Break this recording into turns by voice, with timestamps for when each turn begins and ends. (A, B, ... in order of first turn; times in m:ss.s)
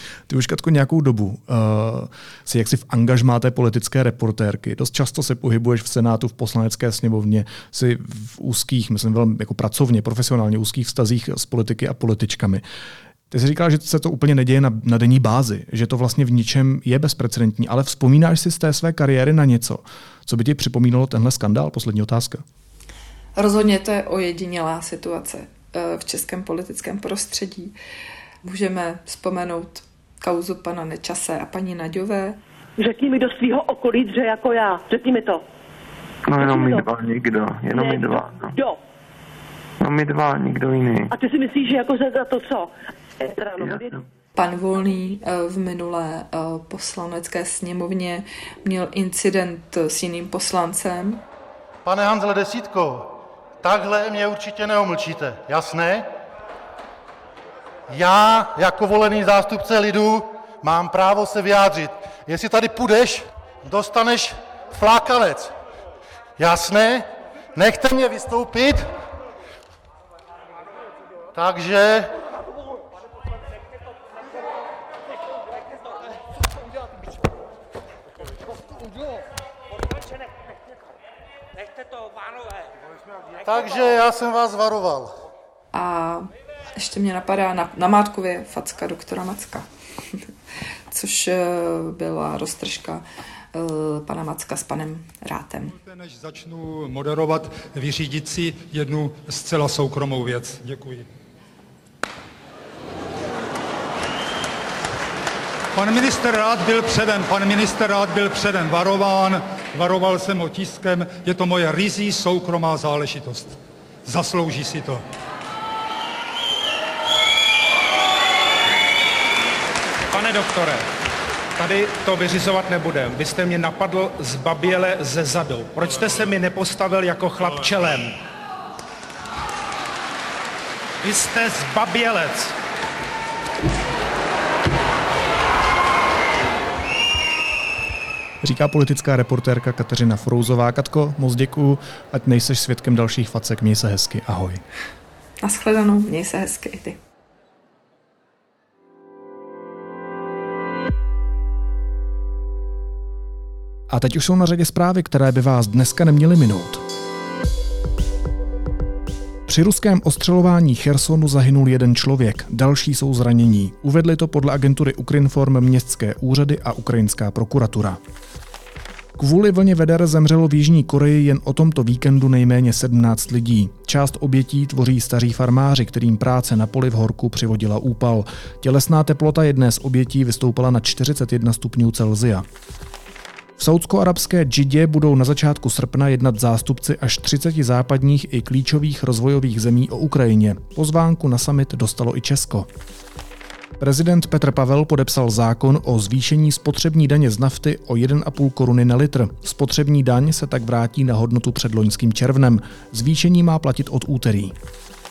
0:00.3-0:12.6 A
0:13.3-0:22.4 A
0:23.4-0:27.7 B
0:28.4-0:32.4 B
0:32.8-0:35.4 C
0:36.2-0:38.5 D
0:36.4-0:36.8 C
0:37.7-0:38.8 C
0:39.8-0:41.1 D
0:41.1-0:44.0 C
0:44.4-0:51.2 B
0:51.8-0:56.1 E
0:57.9-1:05.5 E
1:06.4-1:08.9 E
1:11.3-1:12.1 E
1:23.4-1:25.1 E
1:25.7-1:29.6 B
1:30.9-1:33.0 B
1:33.5-1:35.7 B
1:35.7-1:41.1 F
1:45.7-1:55.0 F
2:00.1-2:00.8 G
2:01.6-2:08.2 G
2:11.0-2:12.5 G
2:18.4-2:24.6 A
2:25.4-2:27.0 B
2:33.9-2:36.8 A
2:39.5-2:48.0 A
2:49.2-3:02.4 A
3:03.6-3:12.7 A
3:13.8-3:24.5 A